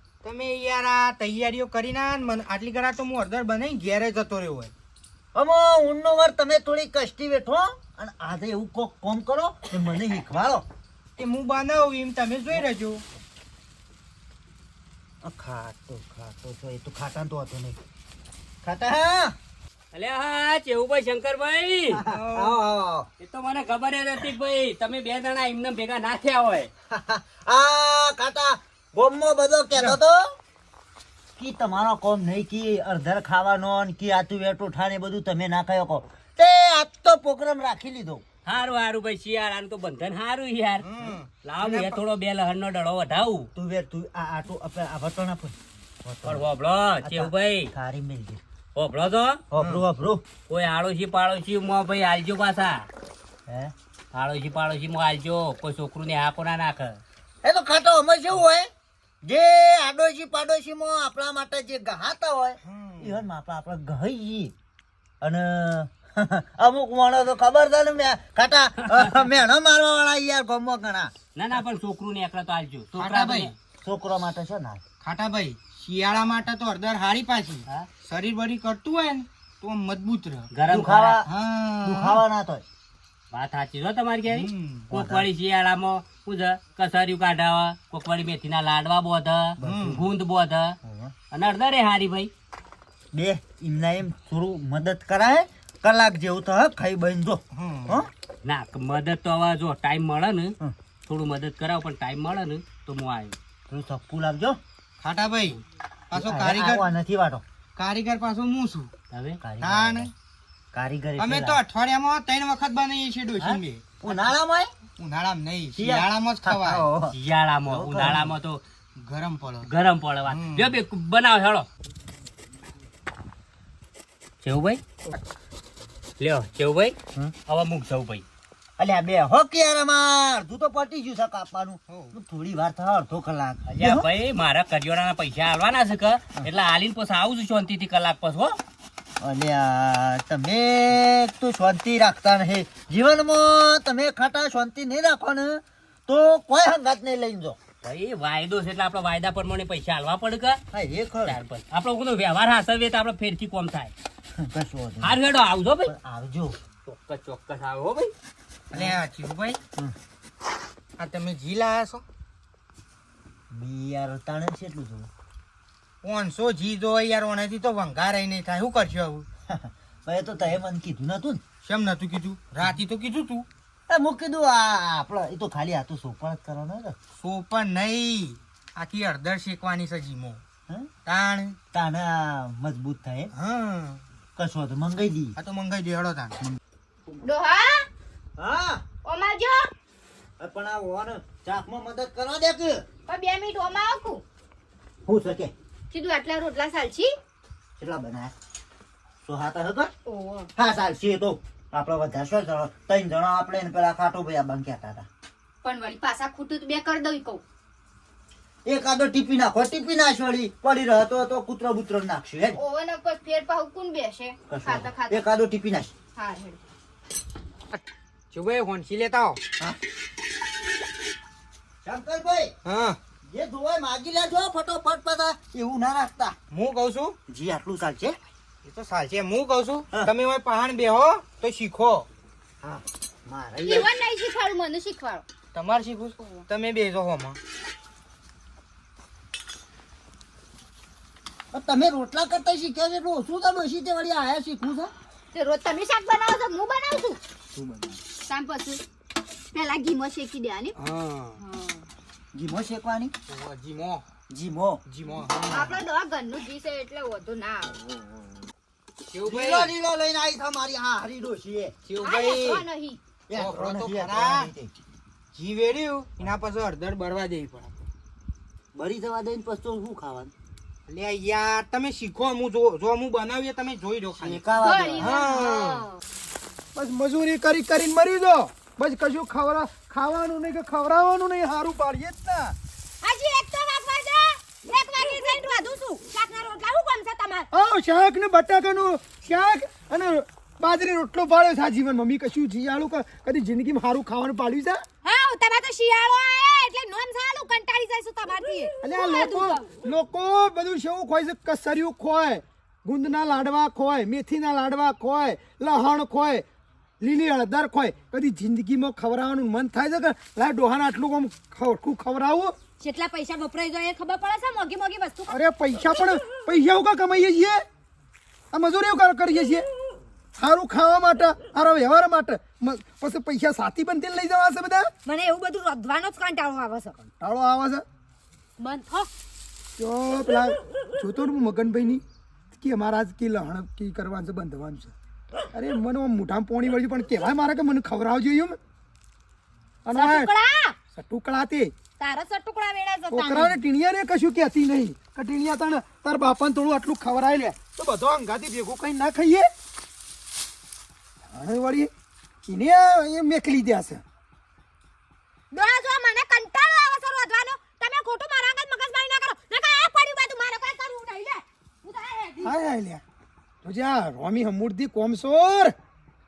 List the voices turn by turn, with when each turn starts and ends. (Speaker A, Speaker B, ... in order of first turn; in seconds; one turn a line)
Speaker A: 0.2-4.7
Speaker B: 5.3-10.7
Speaker A: 11.2-13.0
Speaker B: 15.2-17.8
Speaker B: 18.6-19.4
Speaker C: 19.9-22.0
Speaker B: 21.9-23.1
Speaker A: 22.1-22.7
Speaker C: 23.2-26.7
Speaker B: 26.9-30.4
Speaker B: 31.4-38.2
Speaker C: 38.5-43.5
Speaker A: 40.8-42.0
Speaker B: 43.5-46.5
Speaker C: 46.2-47.7
Speaker B: 47.0-48.4
Speaker C: 48.8-49.4
Speaker B: 49.5-50.2
Speaker C: 50.5-52.9
Speaker B: 53.5-53.7
Speaker C: 54.1-57.0
Speaker B: 57.4-58.7
Speaker B: 59.2-64.5
Speaker A: 62.6-63.2
Speaker B: 65.2-71.1
Speaker C: 71.3-73.5
Speaker A: 73.0-73.5
Speaker B: 73.8-74.8
Speaker A: 75.0-80.5
Speaker C: 80.5-81.2
Speaker B: 80.7-81.3
Speaker A: 81.2-82.2
Speaker B: 81.8-82.7
Speaker C: 83.3-90.8
Speaker A: 84.3-84.9
Speaker B: 84.9-85.3
Speaker B: 89.6-90.0
Speaker A: 89.6-90.0
Speaker B: 90.8-91.1
Speaker C: 91.3-92.3
Speaker B: 93.1-98.1
Speaker A: 97.5-98.0
Speaker C: 98.5-100.5
Speaker C: 101.1-103.3
Speaker B: 103.7-104.6
Speaker A: 105.0-105.6
Speaker A: 106.1-106.9
Speaker B: 106.1-107.4
Speaker A: 107.8-108.9
Speaker C: 109.1-109.4
Speaker B: 109.4-110.1
Speaker A: 109.6-110.1
Speaker B: 110.7-111.6
Speaker A: 111.2-113.8
Speaker B: 113.4-114.7
Speaker A: 115.0-116.8
Speaker B: 115.8-117.2
Speaker C: 117.1-118.6
Speaker B: 117.7-118.3
Speaker A: 119.0-119.7
Speaker C: 119.7-121.7
Speaker A: 120.3-120.7
Speaker C: 124.4-124.8
Speaker C: 126.2-128.2
Speaker B: 128.8-134.1
Speaker A: 131.9-132.2
Speaker C: 133.7-138.6
Speaker B: 139.2-147.6
Speaker C: 147.8-150.6
Speaker B: 150.7-151.4
Speaker C: 151.2-153.9
Speaker B: 154.4-155.2
Speaker C: 155.0-155.9
Speaker B: 155.8-156.6
Speaker C: 156.9-158.1
Speaker A: 158.7-159.6
Speaker B: 158.7-159.0
Speaker A: 161.0-162.0
Speaker B: 163.5-165.1
Speaker A: 166.0-169.3
Speaker B: 169.5-171.4
Speaker A: 171.6-173.5
Speaker B: 173.9-177.0
Speaker A: 177.2-180.4
Speaker A: 181.1-181.6
Speaker B: 181.7-183.3
Speaker A: 183.3-184.0
Speaker B: 184.4-185.3
Speaker A: 185.4-186.4
Speaker D: 187.2-187.9
Speaker B: 188.4-188.8
Speaker D: 189.0-189.7
Speaker B: 190.4-192.8
Speaker D: 193.1-194.2
Speaker B: 195.1-195.5
Speaker D: 195.9-197.1
Speaker B: 197.8-198.3
Speaker B: 199.2-199.9
Speaker D: 200.1-200.5
Speaker B: 200.6-205.1
Speaker D: 205.6-207.4
Speaker B: 208.7-212.6
Speaker D: 212.6-215.2
Speaker B: 214.5-215.9
Speaker D: 216.2-216.6
Speaker A: 217.7-219.4
Speaker B: 221.8-222.5
Speaker A: 222.7-223.0
Speaker B: 223.3-226.4
Speaker A: 226.5-227.2
Speaker B: 227.3-228.2
Speaker A: 228.6-232.1
Speaker B: 232.6-233.9
Speaker D: 233.6-235.2
Speaker A: 235.5-237.4
Speaker B: 241.5-244.9
Speaker D: 245.3-247.2
Speaker B: 247.5-248.0
Speaker D: 248.3-248.8
Speaker D: 249.5-250.8
Speaker A: 250.8-251.4
Speaker D: 251.4-251.8
Speaker B: 252.3-253.1
Speaker A: 253.3-254.0
Speaker B: 254.3-254.8
Speaker A: 254.9-255.8
Speaker D: 255.5-257.7
Speaker A: 259.1-259.7
Speaker B: 259.3-261.8
Speaker A: 261.9-262.7
Speaker D: 262.0-263.0
Speaker B: 263.3-264.7
Speaker A: 263.3-264.5
Speaker A: 265.3-267.8
Speaker B: 268.8-270.3
Speaker A: 270.9-274.4
Speaker B: 274.2-275.2
Speaker D: 274.6-276.0
Speaker A: 275.0-275.9
Speaker E: 276.8-282.6
Speaker F: 283.0-287.5
Speaker E: 287.5-294.8
Speaker F: 295.0-299.8
Speaker E: 298.8-306.4
Speaker E: 307.0-312.6
Speaker F: 312.8-315.4
Speaker E: 315.3-317.6
Speaker E: 318.5-319.7
Speaker E: 320.4-324.9
Speaker F: 325.1-327.1
Speaker E: 327.2-327.8
Speaker F: 328.6-329.1
Speaker E: 329.8-332.0
Speaker E: 332.6-334.9
Speaker E: 335.5-338.6
Speaker E: 339.9-340.3
Speaker F: 339.9-340.8
Speaker E: 340.9-341.7
Speaker F: 342.0-343.6
Speaker E: 343.1-349.5
Speaker E: 351.3-351.9
Speaker E: 352.4-354.0
Speaker F: 355.5-362.6
Speaker E: 362.4-363.0
Speaker E: 363.6-365.8